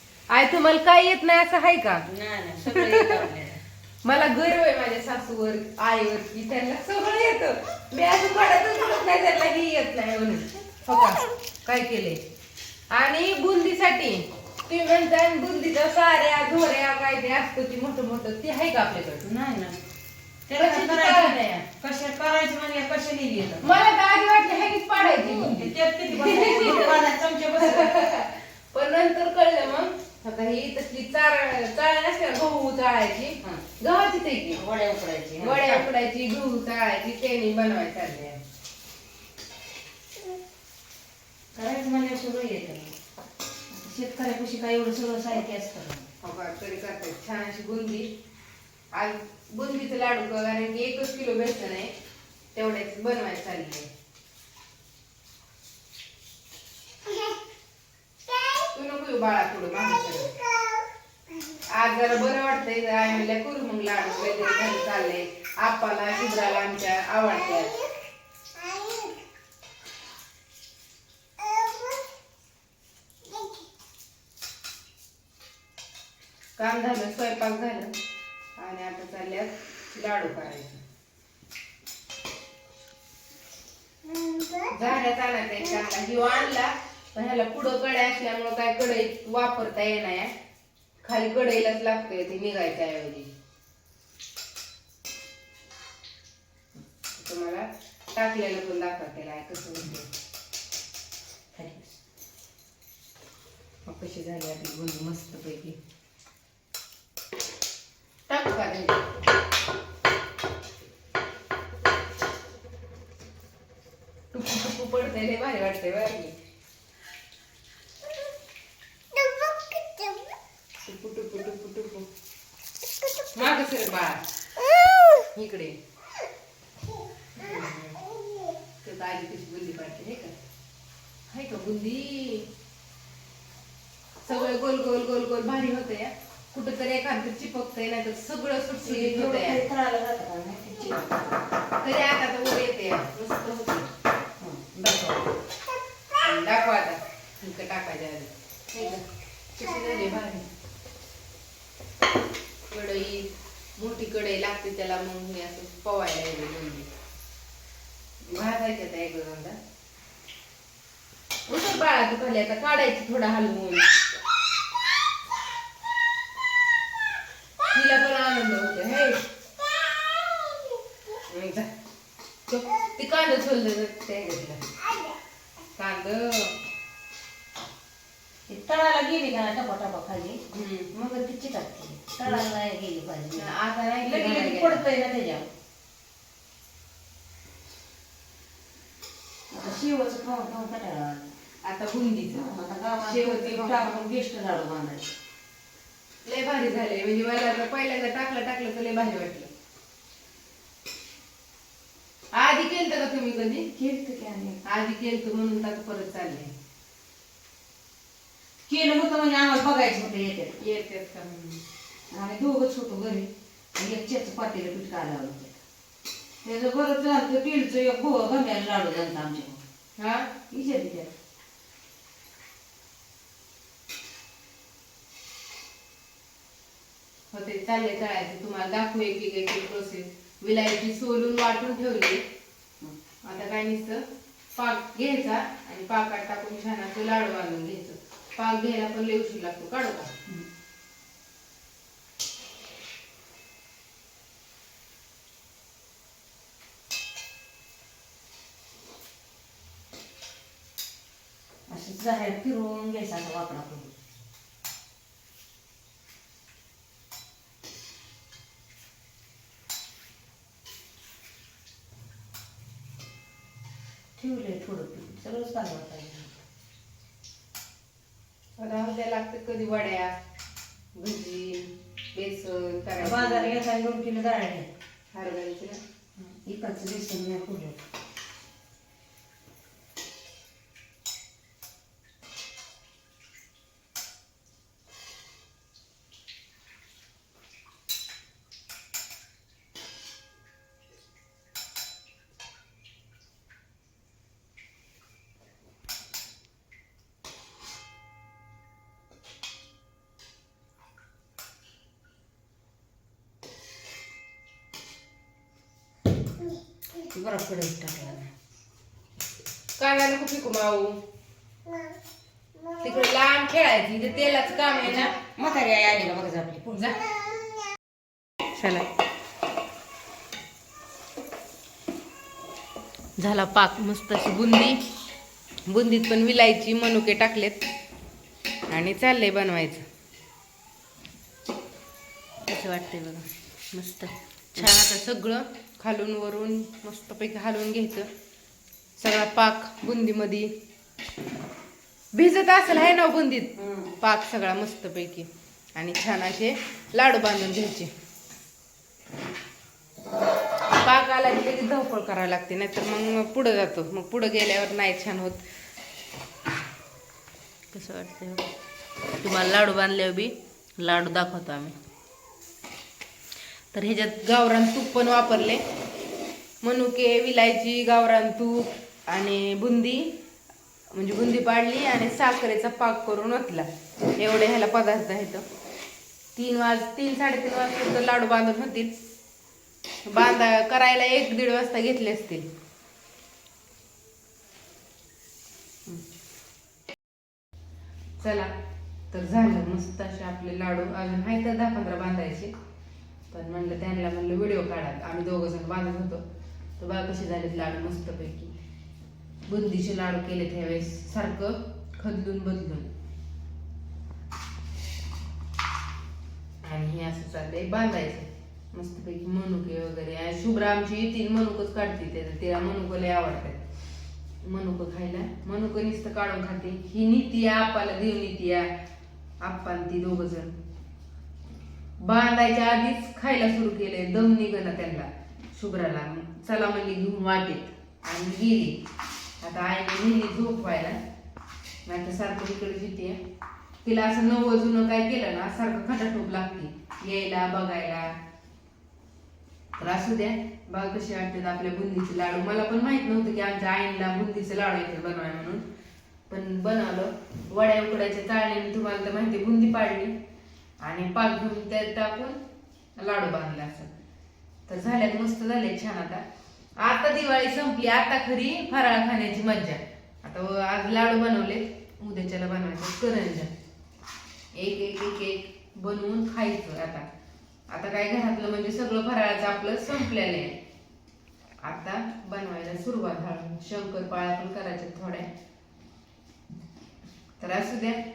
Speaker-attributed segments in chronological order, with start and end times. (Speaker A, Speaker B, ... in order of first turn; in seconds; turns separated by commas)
Speaker A: 0.3-2.0, Speaker B: 2.1-3.6, Speaker A: 2.7-3.2, Speaker A: 4.0-12.2, Speaker A: 12.9-19.3, Speaker B: 19.2-19.8, Speaker B: 20.5-23.7, Speaker A: 20.5-21.6, Speaker A: 23.6-27.0, Speaker B: 25.2-28.0, Speaker A: 27.6-34.6, Speaker B: 34.5-35.9, Speaker A: 35.4-38.4, Speaker B: 41.5-42.9, Speaker B: 43.7-46.1, Speaker A: 46.2-48.1, Speaker A: 48.9-51.9, Speaker A: 52.5-53.9, Speaker A: 58.6-60.4, Speaker A: 61.7-67.8, Speaker A: 76.6-77.9, Speaker A: 78.6-80.8, Speaker A: 84.5-90.3, Speaker A: 91.0-93.3, Speaker A: 97.1-100.1, Speaker B: 101.5-102.0, Speaker A: 103.8-105.8, Speaker A: 108.3-109.1, Speaker A: 114.3-116.3, Speaker A: 120.8-122.1, Speaker A: 123.3-124.2, Speaker A: 125.3-125.8, Speaker A: 127.3-128.1, Speaker A: 128.8-130.3, Speaker A: 131.3-132.5, Speaker A: 134.2-139.6, Speaker B: 138.8-141.4, Speaker A: 141.8-143.9, Speaker B: 144.4-145.3, Speaker A: 146.2-149.0, Speaker A: 149.6-150.4, Speaker A: 152.7-156.9, Speaker A: 158.3-159.6, Speaker A: 161.5-163.9, Speaker A: 167.7-169.2, Speaker A: 171.3-171.7, Speaker A: 172.5-174.6, Speaker A: 175.8-176.5, Speaker B: 178.5-180.4, Speaker A: 180.5-180.9, Speaker B: 180.9-185.5, Speaker A: 183.3-184.8, Speaker B: 189.5-191.3, Speaker A: 191.6-192.5, Speaker B: 192.3-195.1, Speaker A: 193.0-194.0, Speaker A: 196.2-199.5, Speaker A: 202.3-203.7, Speaker B: 203.7-204.6, Speaker A: 204.6-206.5, Speaker B: 208.7-210.6, Speaker A: 210.6-211.6, Speaker B: 212.1-215.6, Speaker B: 216.4-219.6, Speaker A: 220.0-220.3, Speaker B: 220.5-221.1, Speaker A: 227.3-232.2, Speaker A: 233.2-234.0, Speaker A: 234.5-240.1, Speaker B: 251.7-253.9, Speaker B: 264.2-266.4, Speaker A: 268.6-270.1, Speaker A: 271.0-273.6, Speaker B: 273.0-274.7, Speaker A: 275.1-275.8, Speaker B: 276.2-277.8, Speaker B: 307.0-308.3, Speaker A: 309.8-311.0, Speaker A: 312.8-315.1, Speaker B: 314.8-316.8, Speaker A: 316.7-317.0, Speaker A: 318.5-318.9, Speaker A: 323.2-324.8, Speaker A: 325.7-327.6, Speaker A: 328.7-329.8, Speaker A: 332.5-338.1, Speaker A: 339.0-340.5, Speaker A: 342.1-347.9, Speaker B: 343.6-343.9, Speaker A: 350.7-355.4, Speaker A: 357.7-358.5, Speaker A: 359.2-361.8, Speaker A: 363.7-365.6, Speaker A: 366.6-370.1, Speaker A: 370.9-375.4, Speaker A: 376.3-378.9, Speaker A: 380.0-382.4, Speaker A: 388.2-388.5, Speaker A: 389.1-392.5, Speaker A: 393.3-396.2, Speaker A: 396.8-398.5, Speaker A: 399.5-402.9, Speaker A: 406.6-413.6, Speaker A: 414.4-418.7, Speaker A: 419.4-420.5, Speaker A: 422.0-428.8, Speaker A: 429.4-431.0, Speaker A: 431.9-433.2, Speaker A: 433.8-438.1, Speaker A: 439.8-445.6, Speaker A: 446.3-450.1, Speaker A: 450.8-452.4, Speaker A: 453.0-454.0, Speaker A: 454.7-456.2, Speaker A: 456.8-463.5, Speaker A: 464.5-467.1, Speaker A: 467.7-470.6, Speaker A: 471.6-475.3, Speaker A: 477.4-478.0